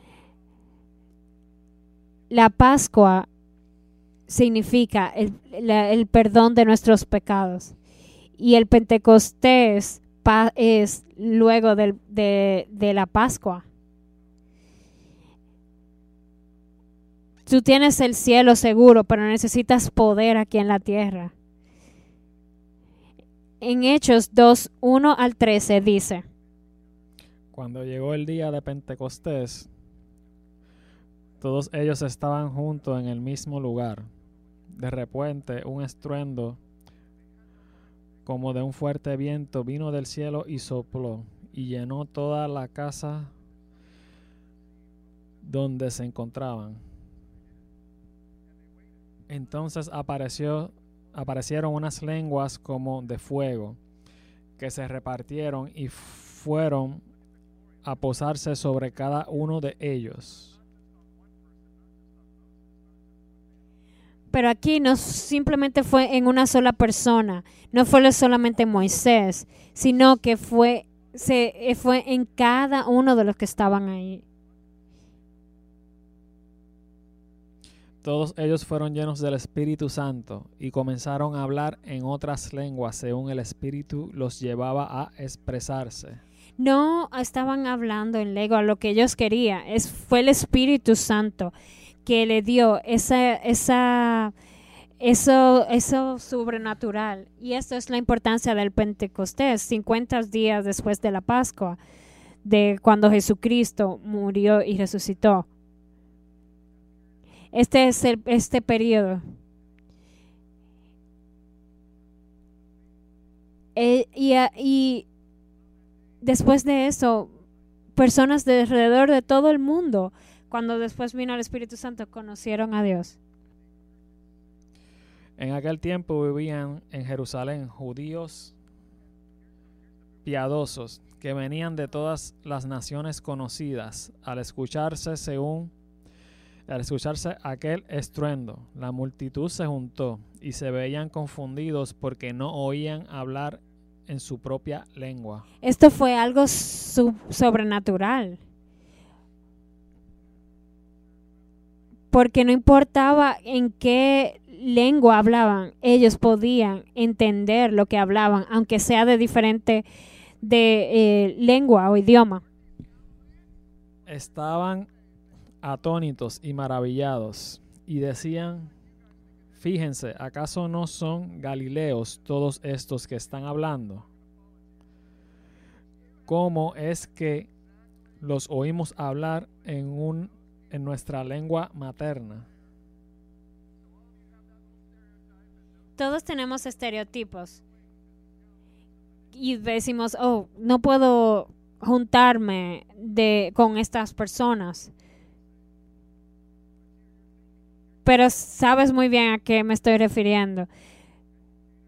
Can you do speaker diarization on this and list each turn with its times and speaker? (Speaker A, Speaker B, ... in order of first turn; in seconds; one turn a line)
Speaker A: 2.3-3.3
Speaker A: 4.3-7.7
Speaker A: 8.4-13.6
Speaker A: 17.5-21.3
Speaker A: 23.6-26.2
Speaker B: 27.5-29.7
Speaker B: 31.4-34.1
Speaker B: 34.7-36.6
Speaker B: 38.2-43.3
Speaker B: 45.4-46.8
Speaker B: 49.3-53.8
Speaker B: 54.6-57.0
Speaker B: 57.8-60.5
Speaker A: 64.3-74.2
Speaker B: 78.0-86.2
Speaker A: 86.6-91.5
Speaker A: 92.0-94.3
Speaker A: 95.0-101.8
Speaker A: 102.4-105.5
Speaker A: 107.5-109.2
Speaker A: 113.8-115.0
Speaker A: 116.2-117.3
Speaker A: 118.0-123.2
Speaker B: 125.4-128.5
Speaker B: 130.2-135.7
Speaker B: 136.7-145.4
Speaker A: 145.6-148.4
Speaker A: 152.1-159.8
Speaker A: 160.4-162.4
Speaker B: 164.1-164.9
Speaker B: 165.6-168.7
Speaker B: 169.6-174.1
Speaker B: 176.2-177.5
Speaker B: 178.2-182.5
Speaker A: 186.0-187.6
Speaker A: 189.3-194.9
Speaker A: 198.0-200.7